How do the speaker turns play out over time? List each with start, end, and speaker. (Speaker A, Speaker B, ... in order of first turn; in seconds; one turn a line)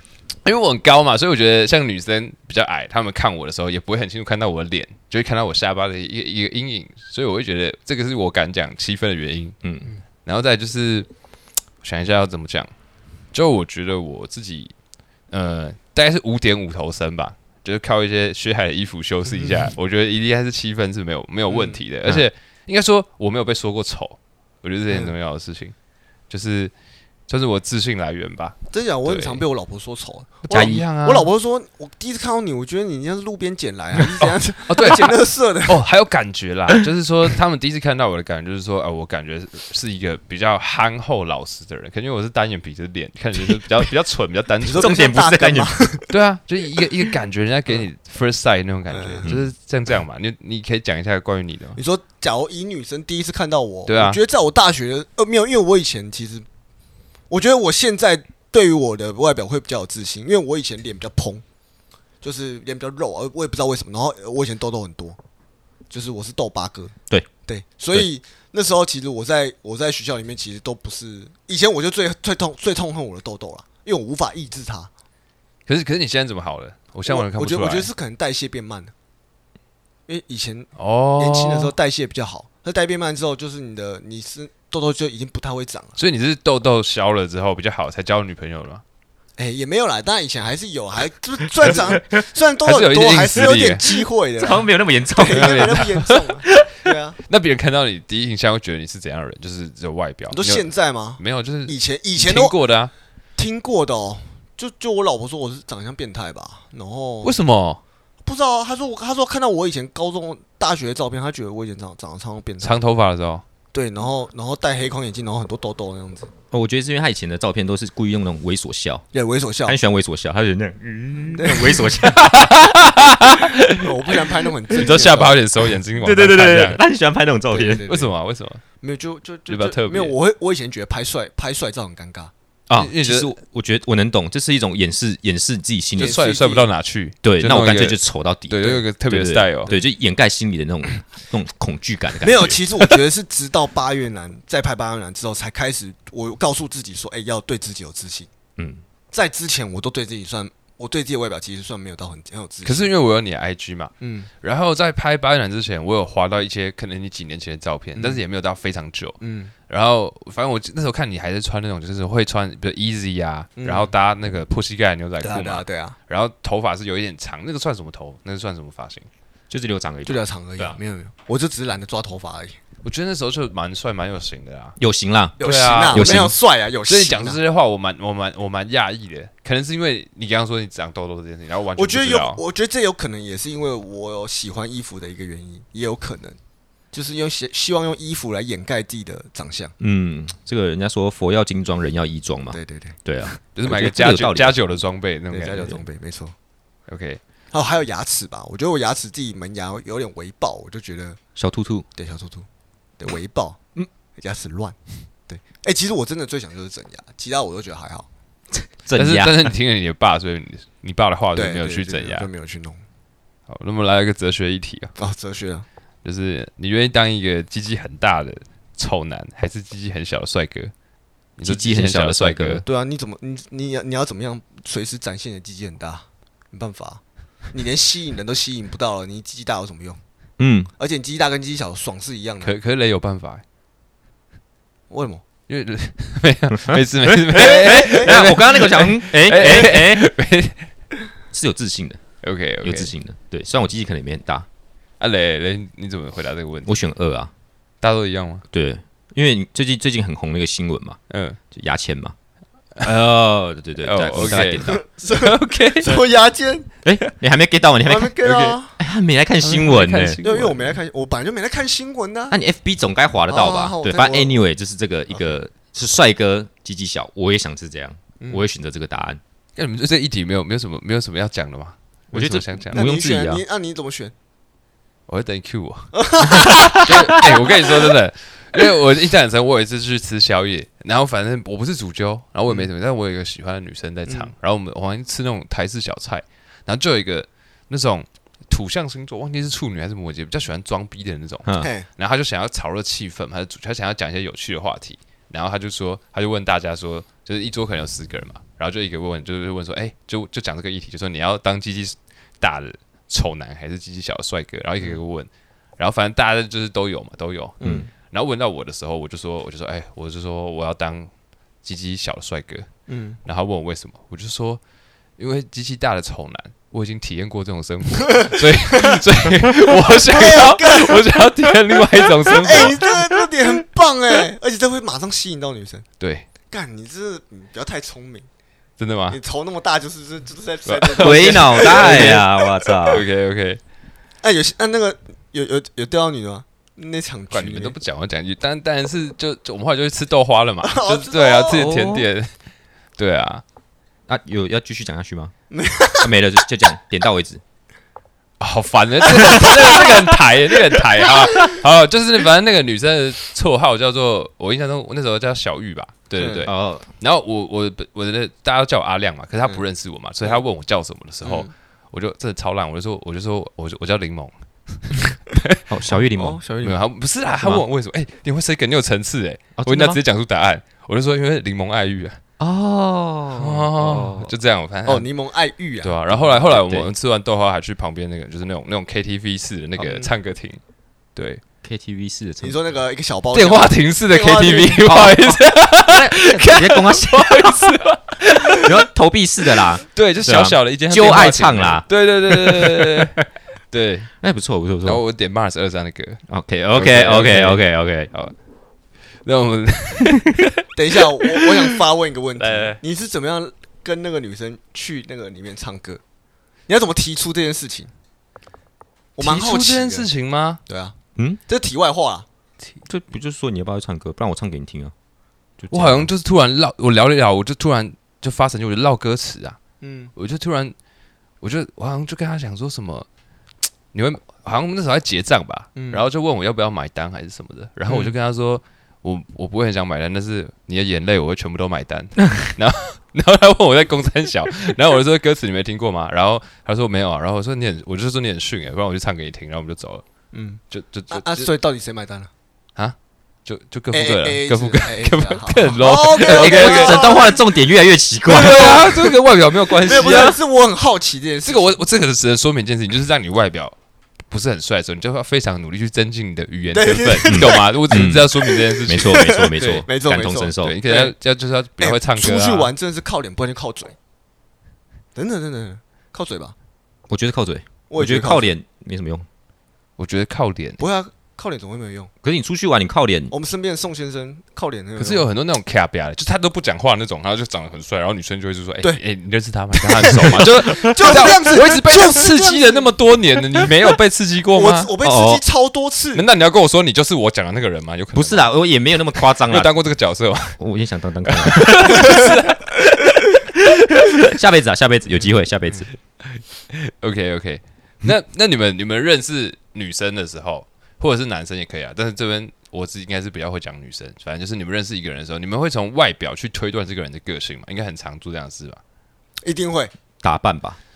Speaker A: 0.4-9.6
Speaker B: 9.6-9.9
Speaker A: 10.2-11.1
Speaker A: 11.8-12.7
Speaker A: 13.3-14.7
Speaker A: 15.3-25.7
Speaker C: 19.3-19.7
Speaker C: 21.5-21.8
Speaker A: 26.3-26.7
Speaker A: 27.3-29.4
Speaker C: 28.7-35.8
Speaker A: 30.5-31.3
Speaker B: 30.5-30.8
Speaker A: 34.2-45.0
Speaker C: 44.6-46.1
Speaker B: 44.7-45.7
Speaker A: 46.1-51.8
Speaker C: 48.9-49.3
Speaker C: 51.8-56.5
Speaker A: 53.9-54.2
Speaker C: 57.3-61.4
Speaker C: 62.2-65.2
Speaker C: 65.9-66.9
Speaker C: 67.5-74.9
Speaker A: 75.7-77.9
Speaker C: 77.1-78.9
Speaker C: 80.1-86.0
Speaker A: 80.8-81.7
Speaker A: 86.0-88.8
Speaker C: 89.4-97.2
Speaker B: 91.6-92.0
Speaker A: 92.6-94.0
Speaker B: 94.4-95.8
Speaker A: 95.3-96.2
Speaker A: 97.3-102.9
Speaker C: 100.3-102.5
Speaker C: 103.4-107.3
Speaker A: 107.2-107.8
Speaker C: 108.2-112.7
Speaker A: 112.6-113.4
Speaker C: 113.7-116.3
Speaker B: 116.5-119.0
Speaker C: 119.1-119.8
Speaker B: 119.7-123.5
Speaker C: 121.3-122.0
Speaker A: 122.2-123.5
Speaker C: 123.6-125.4
Speaker A: 124.7-126.8
Speaker B: 125.9-127.8
Speaker C: 127.5-128.1
Speaker A: 127.8-128.6
Speaker C: 128.8-132.3
Speaker A: 129.5-130.1
Speaker B: 132.7-136.2
Speaker A: 132.7-133.3
Speaker C: 136.0-136.7
Speaker A: 136.0-139.7
Speaker B: 137.2-142.6
Speaker C: 142.2-148.3
Speaker C: 149.1-152.9
Speaker A: 152.6-159.2
Speaker C: 154.0-154.3
Speaker C: 157.9-158.2
Speaker C: 159.2-159.5
Speaker A: 159.7-169.1
Speaker C: 163.6-163.9
Speaker C: 165.2-165.9
Speaker B: 169.5-170.8
Speaker C: 170.1-172.6
Speaker A: 172.8-174.8
Speaker B: 174.8-176.3
Speaker C: 175.4-177.4
Speaker A: 175.4-176.3
Speaker A: 176.8-182.4
Speaker C: 181.7-186.4
Speaker C: 186.9-189.7
Speaker B: 189.8-194.6
Speaker C: 192.5-193.3
Speaker A: 193.5-195.8
Speaker C: 195.3-196.3
Speaker A: 196.9-197.2
Speaker C: 197.5-201.2
Speaker B: 201.3-201.8
Speaker C: 201.9-202.5
Speaker C: 203.0-203.6
Speaker C: 204.2-204.8
Speaker C: 205.3-208.1
Speaker B: 208.5-209.5
Speaker A: 208.9-212.3
Speaker C: 211.3-212.8
Speaker A: 213.5-214.9
Speaker C: 215.0-215.7
Speaker A: 216.0-220.7
Speaker A: 221.4-222.6
Speaker B: 221.4-222.6
Speaker C: 222.6-230.0
Speaker B: 230.4-230.7
Speaker C: 230.8-232.5
Speaker A: 232.4-233.4
Speaker C: 234.9-235.2
Speaker A: 235.5-240.6
Speaker B: 236.6-240.1
Speaker C: 237.3-238.2
Speaker B: 241.3-242.0
Speaker A: 242.2-242.9
Speaker B: 242.6-244.5
Speaker A: 245.0-246.7
Speaker B: 246.7-247.3
Speaker A: 247.8-248.4
Speaker B: 248.5-251.0
Speaker A: 251.1-251.4
Speaker B: 251.5-252.1
Speaker B: 252.8-254.8
Speaker A: 253.8-256.0
Speaker C: 254.6-256.7
Speaker B: 256.8-258.2
Speaker C: 257.9-258.7
Speaker A: 258.2-258.6
Speaker B: 258.8-260.2
Speaker A: 259.4-260.7
Speaker C: 260.2-262.4
Speaker B: 262.3-269.2
Speaker C: 263.3-264.4
Speaker C: 268.2-268.4
Speaker A: 269.6-272.8
Speaker B: 272.1-273.4
Speaker C: 272.7-274.1
Speaker A: 275.1-311.1
Speaker C: 275.9-277.9
Speaker B: 276.3-277.2
Speaker C: 284.1-284.3
Speaker C: 291.6-291.9
Speaker C: 307.6-307.9
Speaker A: 311.6-312.7
Speaker C: 312.9-313.2
Speaker A: 313.2-314.6
Speaker A: 315.2-323.0
Speaker C: 318.0-319.0
Speaker C: 319.5-321.0
Speaker C: 322.3-325.8
Speaker A: 326.0-326.2
Speaker C: 326.5-328.3
Speaker A: 328.8-329.2
Speaker C: 329.1-332.2
Speaker A: 330.6-333.6
Speaker B: 331.0-333.0
Speaker C: 334.2-337.7
Speaker A: 337.3-342.3
Speaker C: 340.6-341.7
Speaker B: 341.5-342.1
Speaker A: 343.0-343.4
Speaker B: 344.1-345.3
Speaker C: 345.5-346.1
Speaker B: 346.0-347.4
Speaker A: 348.4-365.6
Speaker C: 349.1-350.0
Speaker C: 351.0-351.5
Speaker C: 356.1-356.5
Speaker B: 356.4-356.9
Speaker C: 361.2-361.5
Speaker B: 365.7-366.4
Speaker C: 366.1-366.8
Speaker A: 366.6-372.2
Speaker B: 367.4-367.6
Speaker B: 369.6-370.0
Speaker B: 372.4-374.3
Speaker A: 373.3-375.1
Speaker C: 374.9-376.5
Speaker A: 375.8-380.6
Speaker B: 376.4-376.9
Speaker C: 379.8-380.1
Speaker A: 381.1-381.4
Speaker B: 381.6-382.6
Speaker C: 382.4-385.0
Speaker A: 383.3-388.9
Speaker B: 384.8-387.8
Speaker B: 388.4-393.1
Speaker A: 389.9-393.2
Speaker A: 393.7-394.1
Speaker B: 394.2-395.0
Speaker A: 394.8-396.2
Speaker B: 396.3-398.1
Speaker A: 396.7-398.3
Speaker A: 399.2-400.6
Speaker C: 400.7-406.0
Speaker A: 402.4-402.8
Speaker C: 406.7-407.9
Speaker C: 409.2-410.1
Speaker A: 409.2-410.6
Speaker C: 410.6-410.9
Speaker C: 411.5-412.2
Speaker B: 412.9-414.9
Speaker B: 415.6-416.1
Speaker A: 415.7-419.6
Speaker C: 419.8-420.1
Speaker A: 420.1-420.7
Speaker A: 421.4-423.1
Speaker A: 423.9-440.0
Speaker C: 425.8-426.0
Speaker C: 427.9-428.1
Speaker C: 440.3-442.3
Speaker A: 440.7-441.5
Speaker A: 443.4-447.2
Speaker C: 443.9-447.4
Speaker B: 446.2-449.0
Speaker A: 448.2-450.4
Speaker C: 449.8-451.8
Speaker A: 451.4-453.7
Speaker A: 454.3-459.9
Speaker C: 456.7-461.1
Speaker B: 457.2-458.3
Speaker B: 458.8-460.8
Speaker A: 460.6-462.7
Speaker C: 461.8-463.9
Speaker C: 465.1-466.5
Speaker B: 467.1-469.2
Speaker C: 467.9-468.5
Speaker A: 470.0-470.8
Speaker C: 470.8-472.1
Speaker B: 472.2-473.3
Speaker C: 473.3-475.3
Speaker A: 475.0-484.9
Speaker C: 479.8-482.9
Speaker C: 484.5-486.2
Speaker B: 485.0-485.4
Speaker A: 486.1-488.5
Speaker B: 488.1-489.7
Speaker A: 489.2-490.6
Speaker B: 490.6-492.4
Speaker A: 491.2-493.4
Speaker B: 493.6-495.9
Speaker A: 496.7-508.8
Speaker C: 509.4-509.9
Speaker B: 510.2-510.8